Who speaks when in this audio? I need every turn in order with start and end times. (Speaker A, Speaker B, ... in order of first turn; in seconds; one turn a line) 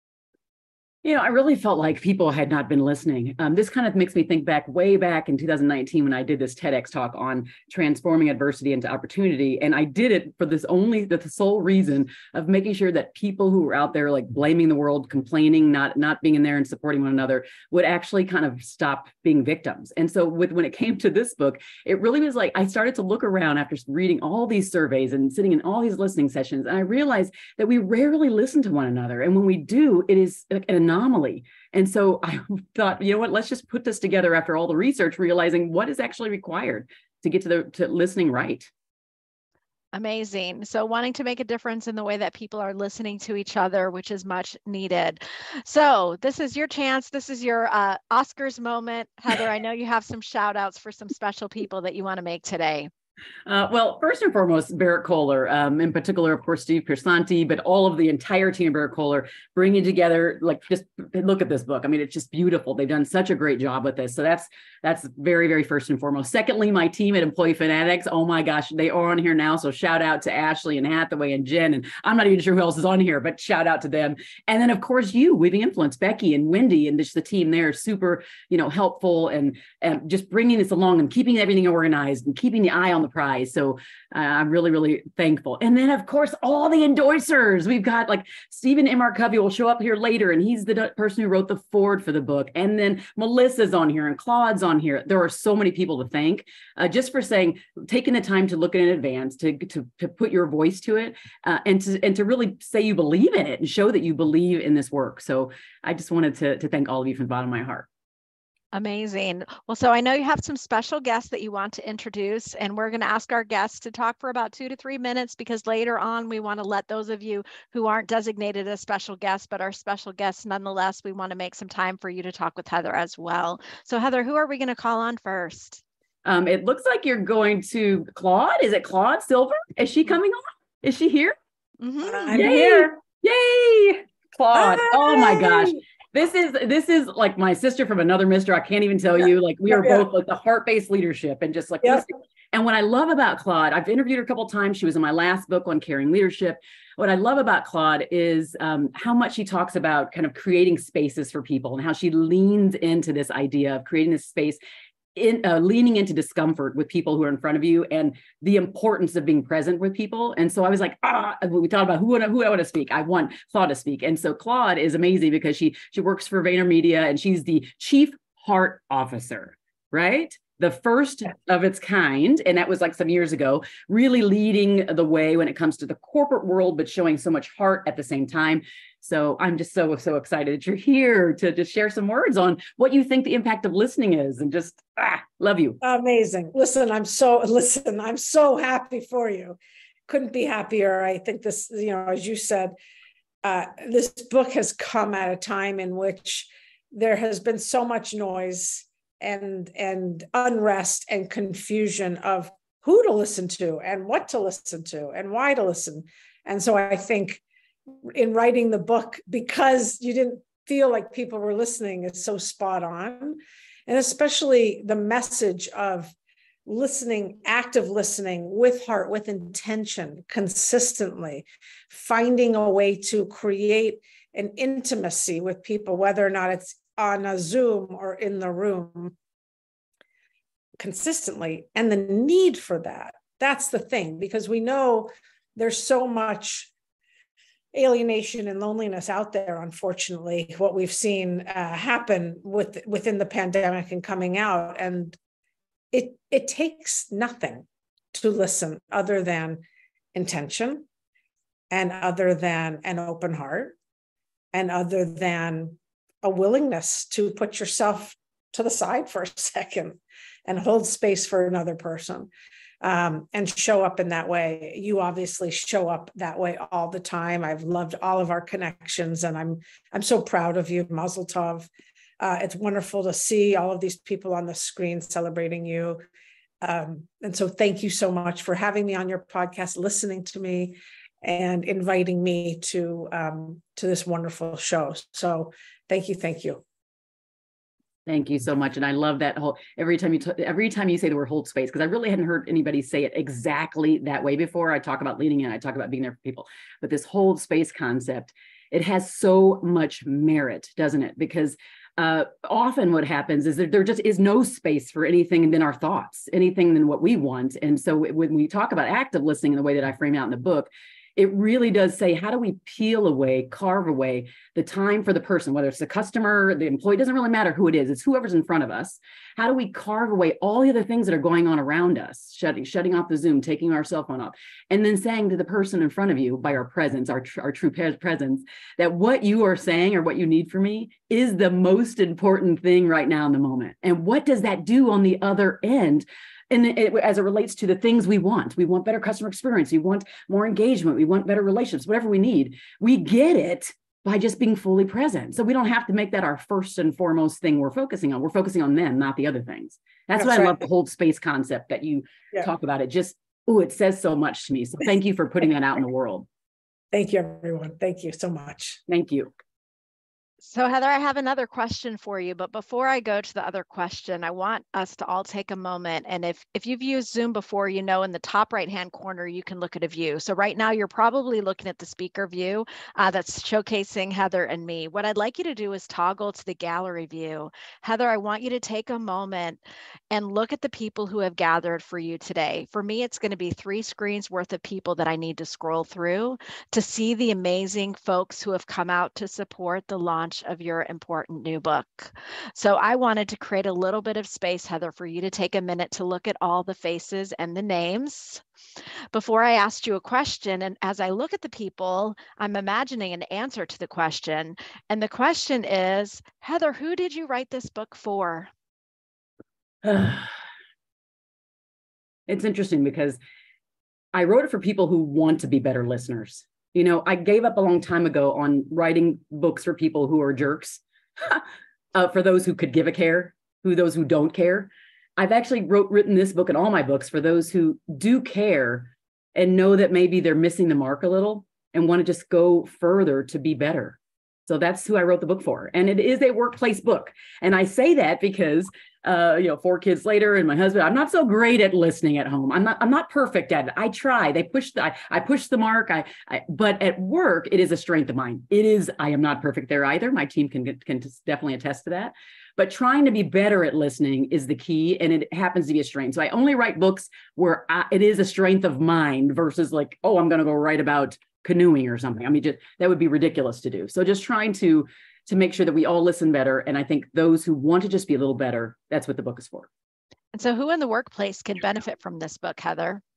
Speaker A: 1.0-38.7
Speaker B: 39.9-52.9
Speaker A: 53.5-107.9
Speaker B: 108.7-125.8
Speaker A: 126.2-131.3
Speaker B: 131.8-132.3
Speaker C: 132.0-132.9
Speaker A: 132.3-154.6
Speaker C: 134.5-135.8
Speaker C: 139.2-140.1
Speaker A: 155.1-185.8
Speaker C: 185.8-189.6
Speaker C: 190.1-192.8
Speaker C: 193.4-207.4
Speaker C: 208.0-216.1
Speaker C: 216.7-229.1
Speaker C: 230.8-236.7
Speaker C: 237.7-245.2
Speaker C: 245.9-249.6
Speaker C: 250.1-250.8
Speaker C: 251.7-253.7
Speaker C: 254.5-262.3
Speaker C: 262.8-271.7
Speaker C: 272.2-276.0
Speaker C: 276.6-286.6
Speaker A: 288.1-356.3
Speaker C: 350.1-350.6
Speaker C: 356.9-358.8
Speaker A: 358.9-359.3
Speaker B: 360.4-398.4
Speaker B: 399.1-408.5
Speaker A: 409.8-410.3
Speaker A: 412.3-413.2
Speaker A: 414.1-469.7
Speaker B: 470.3-473.0